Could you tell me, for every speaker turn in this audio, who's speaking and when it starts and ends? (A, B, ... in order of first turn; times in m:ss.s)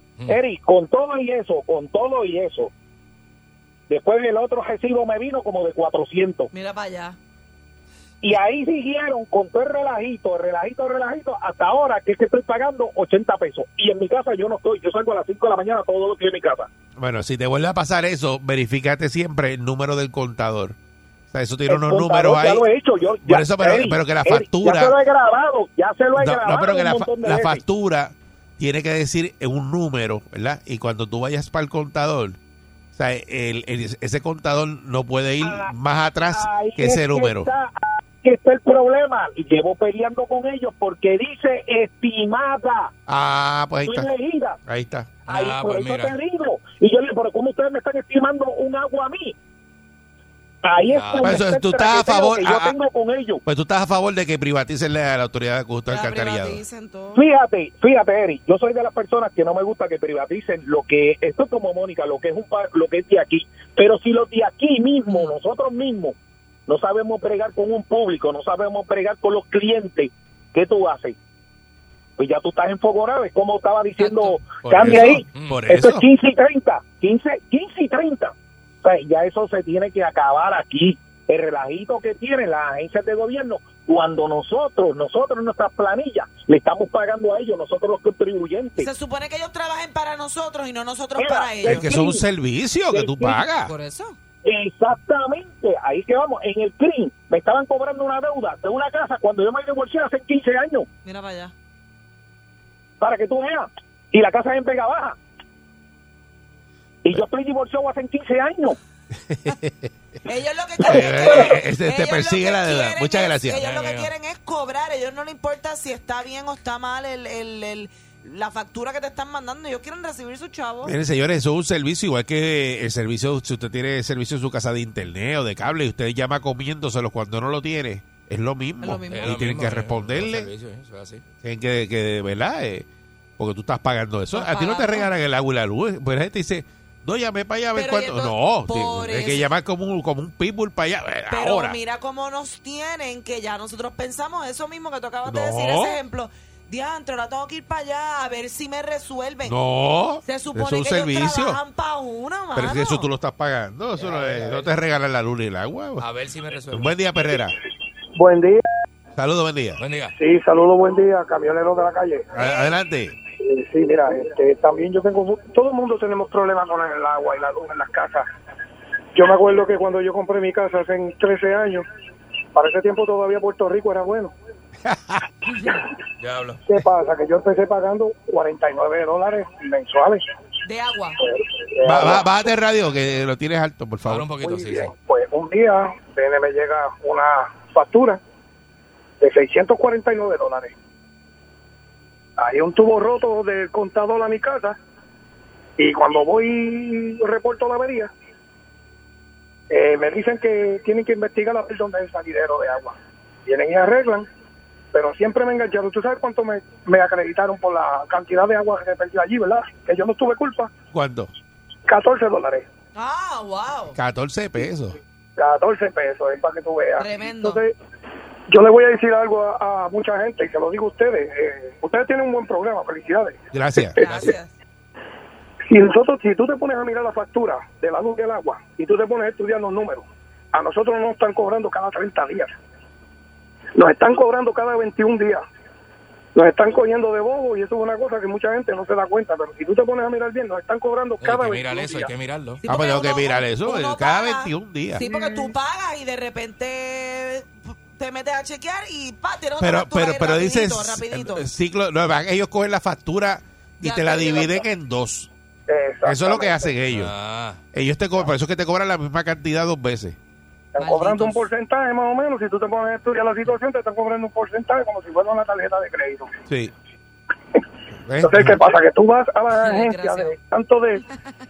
0:00.3-0:02.7 A
0:03.9-0:06.5 A
0:06.5-0:07.2 B
0:08.2-0:16.7 A
0:17.0-0:20.8 C
0:21.3-0:22.7 C
0:21.7-0:27.6 A
0:23.2-0:25.0 C
0:26.2-0:32.4 C
0:32.9-0:37.5 C
0:35.4-0:35.7 A
0:36.3-0:42.9 A
0:43.1-0:44.1 C
0:43.8-0:44.6 A
0:44.6-0:45.2 C
0:45.3-0:49.4 A
0:45.3-0:46.2 D
0:50.6-0:53.4 A
0:50.8-0:51.4 D
0:51.2-0:52.7 C
0:53.4-0:56.6 C
0:55.9-0:57.2 B
0:57.2-1:06.2 A
1:06.7-1:11.2 A
1:12.2-1:28.9 A
1:14.0-1:14.4 B
1:14.6-1:16.1 C
1:15.3-1:15.6 D
1:28.8-1:32.0 B
1:31.2-1:32.2 A
1:31.6-1:33.7 C
1:32.9-1:33.4 A
1:33.7-1:34.2 B
1:34.4-1:40.9 A
1:41.0-1:41.5 B
1:43.0-1:45.2 A
1:47.0-1:48.8 A
1:49.3-1:49.9 C
1:50.2-2:01.0 B
1:50.9-1:51.5 A
1:50.9-1:53.7 C
1:53.6-1:54.1 D
2:00.8-2:10.5 C
2:08.8-2:09.4 B
2:09.1-2:11.2 D
2:11.4-2:12.9 C
2:13.4-2:21.8 C
2:14.3-2:15.1 B
2:17.7-2:19.5 B
2:21.3-2:29.6 B
2:25.2-2:26.0 C
2:29.4-2:31.6 C
2:30.2-2:33.1 B
2:32.6-2:36.1 C
2:34.0-2:34.6 D
2:36.0-2:36.9 D
2:36.7-2:37.6 C
2:38.2-2:38.6 E
2:39.2-2:39.8 C
2:39.8-2:40.1 D
2:40.2-2:42.3 E
2:42.4-2:43.2 C
2:43.4-2:48.3 E
2:49.1-2:51.8 E
2:52.5-2:54.3 E
2:54.8-2:55.2 C
2:55.5-2:55.8 B
2:56.2-2:56.6 D
2:56.7-3:00.2 E
3:00.6-3:01.2 B
3:01.2-3:02.4 E
3:01.8-3:04.3 C
3:04.0-3:04.9 D
3:04.4-3:08.2 E
3:09.2-3:10.8 E
3:12.4-3:14.8 E
3:15.8-3:18.1 E
3:19.7-3:24.3 E
3:24.9-3:30.7 E
3:30.9-3:31.3 C
3:31.9-3:32.7 E
3:33.0-3:34.0 B
3:34.0-3:35.0 C
3:35.4-3:37.7 E
3:37.0-3:37.6 B
3:38.5-3:44.3 E
3:43.5-3:44.2 C
3:44.0-3:44.5 B
3:45.7-3:52.5 E
3:53.8-3:55.4 E
3:56.4-4:02.1 E
4:01.2-4:02.6 D
4:02.6-4:11.5 B
4:02.6-4:05.0 C
4:05.0-4:05.5 E
4:09.6-4:15.3 C
4:13.8-4:14.6 B
4:15.7-4:16.8 E
4:16.0-4:17.1 C
4:16.9-4:17.6 D
4:17.7-4:20.2 C
4:20.8-4:26.3 E
4:20.8-4:21.5 B
4:26.5-4:26.7 C
4:28.0-4:28.6 C
4:28.2-4:31.0 E
4:29.6-4:30.4 B